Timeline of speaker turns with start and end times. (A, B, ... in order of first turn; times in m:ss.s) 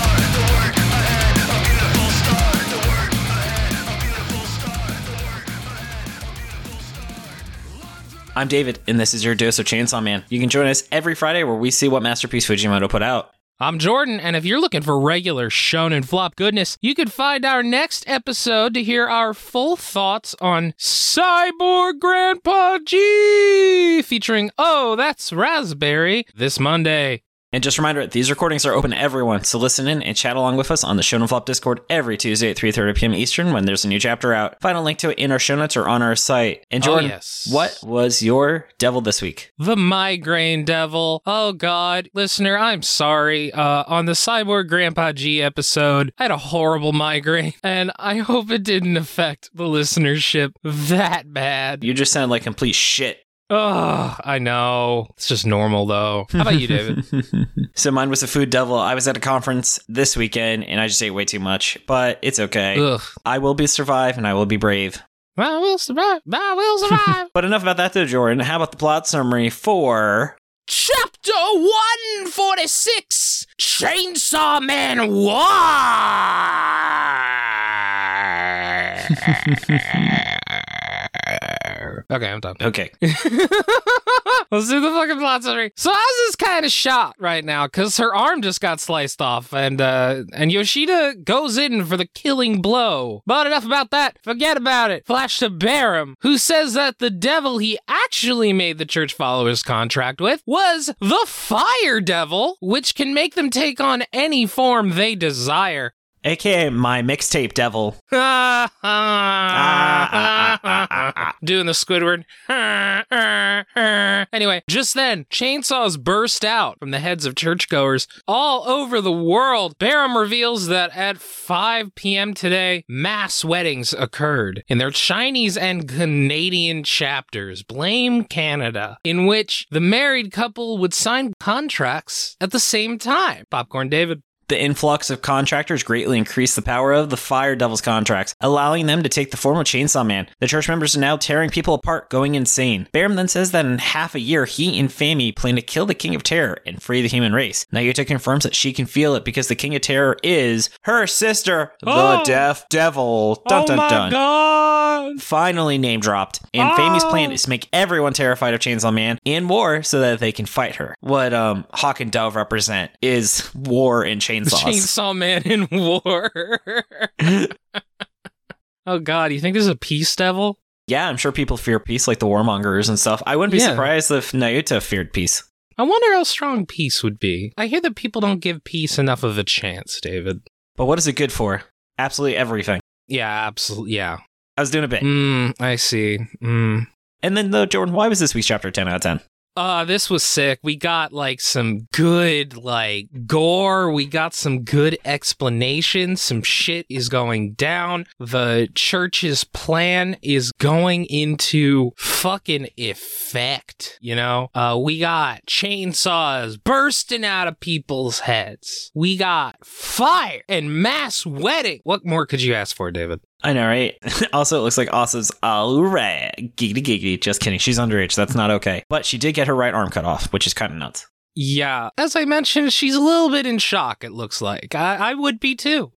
0:08.3-0:13.3 A
0:13.6-0:27.2 B
0:27.5-0:39.5 A
0:36.8-0:37.8 B
0:39.6-0:51.8 B
0:51.8-0:53.2 A
0:53.5-0:57.0 B
0:56.4-1:05.0 A
1:02.7-1:03.1 B
1:05.4-1:07.3 B
1:07.3-1:10.3 A
1:10.7-1:45.9 B
1:19.2-1:19.9 A
1:22.6-1:22.9 A
1:46.2-1:48.0 A
1:48.1-2:14.2 B
1:49.5-1:51.3 A
2:14.5-2:34.2 A
2:31.8-2:32.5 B
2:33.4-2:35.2 B
2:35.2-2:44.9 A
2:36.6-2:37.4 B
2:44.4-2:48.3 B
2:48.8-2:50.6 B
2:50.9-2:55.4 A
2:53.5-2:53.9 B
2:55.8-3:00.4 B
3:00.8-3:02.8 A
3:03.1-3:04.2 B
3:04.6-3:05.1 A
3:05.0-3:06.9 B
3:07.2-3:09.2 A
3:09.6-3:33.2 B
3:33.4-3:41.0 A
3:41.3-3:45.9 B